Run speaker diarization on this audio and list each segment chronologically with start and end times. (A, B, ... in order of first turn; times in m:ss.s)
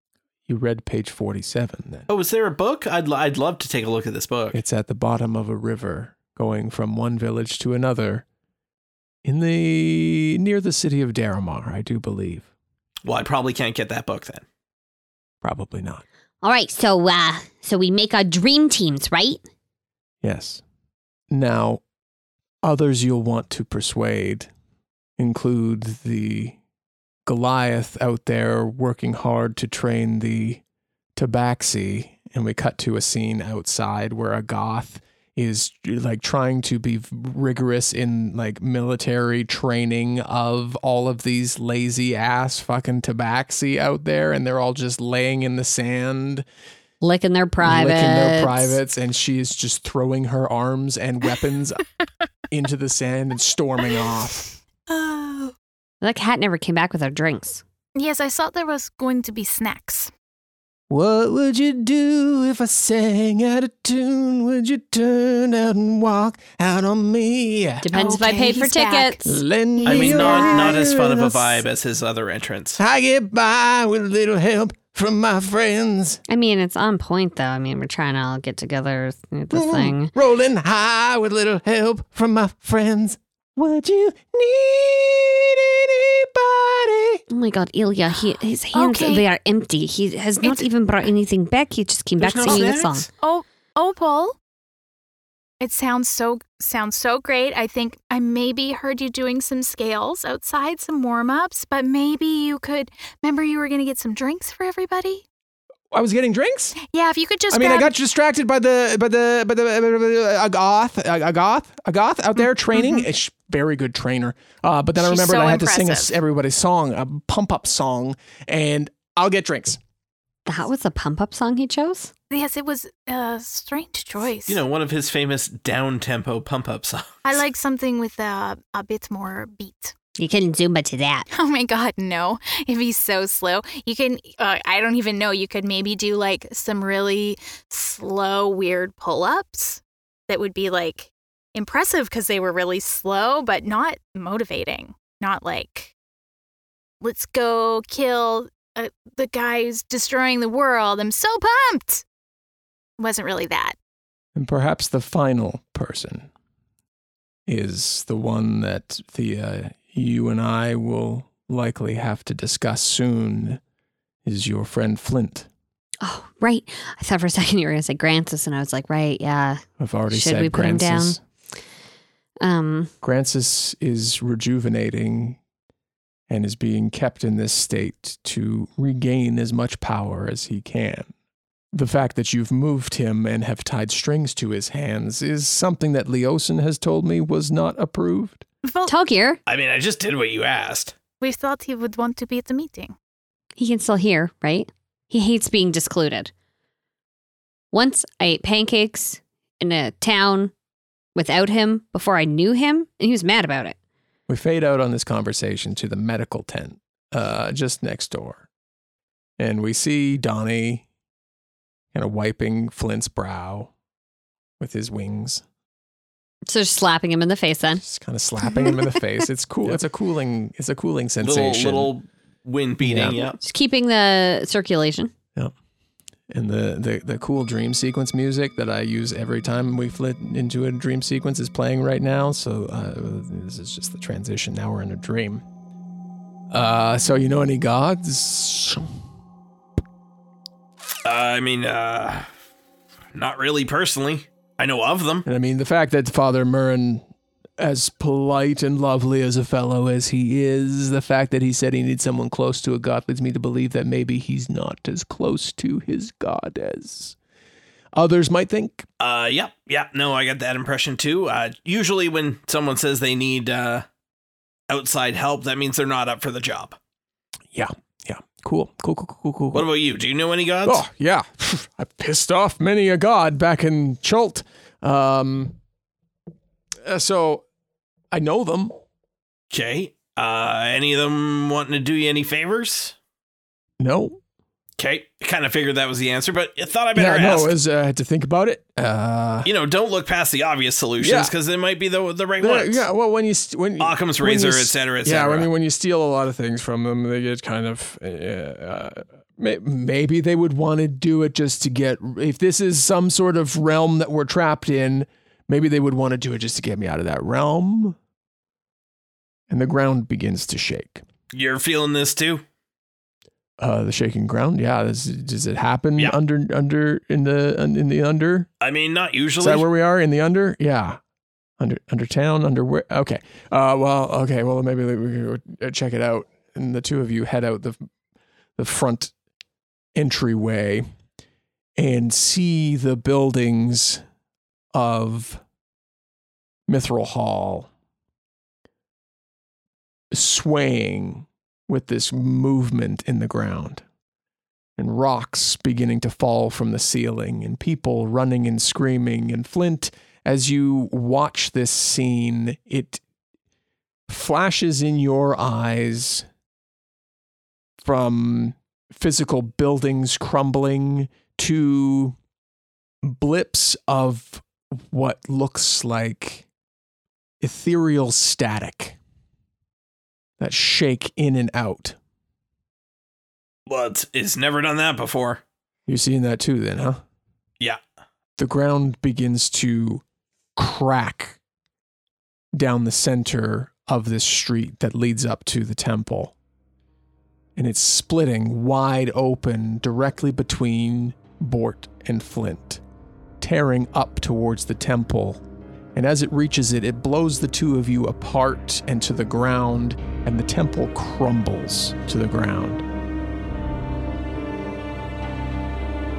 0:00.5-0:02.1 A
0:02.1-0:04.6 B
0:04.5-0:08.2 A
0:09.2-0:12.5 A
0:13.0-0:14.4 B
0:15.4-0:16.0 A
0:16.4-0:19.4 C
0:20.2-0:20.6 A
0:21.3-0:21.8 A
0:22.6-0:24.5 A
0:25.2-0:26.6 A
0:27.3-0:30.6 A
0:31.2-0:46.5 A
0:47.0-0:48.8 C
0:47.6-0:51.8 A
0:52.5-0:54.5 A
0:54.9-0:55.5 D
0:56.0-0:57.6 C
0:58.0-1:00.1 D
1:00.9-1:07.8 A
1:07.8-1:09.2 C
1:07.9-1:10.7 D
1:09.3-1:11.6 A
1:09.9-1:12.8 B
1:12.8-1:16.2 A
1:16.3-1:20.1 C
1:19.5-1:27.2 A
1:27.3-1:33.1 C
1:28.7-1:29.2 D
1:30.4-1:30.7 D
1:32.2-1:33.0 B
1:32.5-1:34.4 D
1:35.6-1:45.2 D
1:45.9-1:46.8 A
1:46.9-1:47.9 D
1:47.5-1:59.8 A
1:52.7-1:53.1 D
1:55.0-1:56.2 D
2:00.5-2:02.1 C
2:02.3-2:04.6 D
2:04.5-2:07.2 B
2:07.2-2:09.9 D
2:10.2-2:11.3 C
2:11.3-2:25.9 D
2:27.0-2:32.0 D
2:33.0-2:33.8 D
2:34.4-2:36.3 A
2:37.5-2:43.6 A
2:44.2-2:45.5 A
2:46.0-2:51.2 C
2:49.8-2:51.2 A
2:52.4-2:52.9 C
2:53.0-2:55.4 A
2:56.3-3:01.1 A
3:01.7-3:08.4 A
3:08.6-3:08.9 D
3:08.9-3:09.4 C
3:09.5-3:11.0 B
3:11.2-3:13.0 D
3:13.6-3:16.3 C
3:17.7-3:20.5 C
3:21.2-3:23.8 C
3:24.3-3:28.5 A
3:29.4-3:30.8 A
3:31.9-3:33.7 A
3:34.6-3:35.4 A
3:36.5-3:37.8 C
3:37.8-3:41.9 A
3:41.2-3:43.4 B
3:42.8-3:43.2 A
3:43.4-3:45.1 C
3:46.3-3:55.4 A
3:56.5-3:58.9 A
4:01.0-4:02.3 B
4:03.2-4:05.2 B
4:05.2-4:07.0 A
4:07.6-4:17.2 A
4:17.9-4:18.9 A
4:19.0-4:23.9 B
4:24.7-4:26.8 B
4:27.5-4:29.7 A
4:29.5-4:30.8 B
4:30.6-4:35.6 A
4:36.8-4:37.4 A
4:38.1-4:38.7 A
4:39.5-4:43.0 B
4:43.8-4:44.2 A
4:44.8-4:47.6 B
4:47.0-4:49.5 A
4:49.4-4:52.8 B
4:51.0-4:51.3 A
4:52.4-5:08.0 A
4:53.8-4:55.5 B
5:09.5-5:11.0 A
5:11.3-5:12.4 B
5:13.6-5:18.5 A
5:18.6-5:19.7 B
5:19.4-5:21.0 A
5:21.6-5:27.9 A
5:28.6-5:29.1 A
5:30.0-5:30.9 A
5:31.8-5:34.0 A
5:34.7-5:35.4 A
5:36.7-5:37.7 A
5:40.1-5:43.8 A
5:44.8-5:53.0 A
5:54.1-5:56.3 A
5:57.8-6:02.2 A
6:03.0-6:06.5 A
6:07.4-6:09.0 A
6:10.4-6:12.0 A
6:13.7-6:15.4 B
6:15.9-6:17.0 A
6:18.4-6:20.0 A
6:20.6-6:21.4 A
6:22.5-6:26.3 A
6:27.6-6:32.8 A
6:33.4-6:35.4 A
6:36.0-6:42.8 A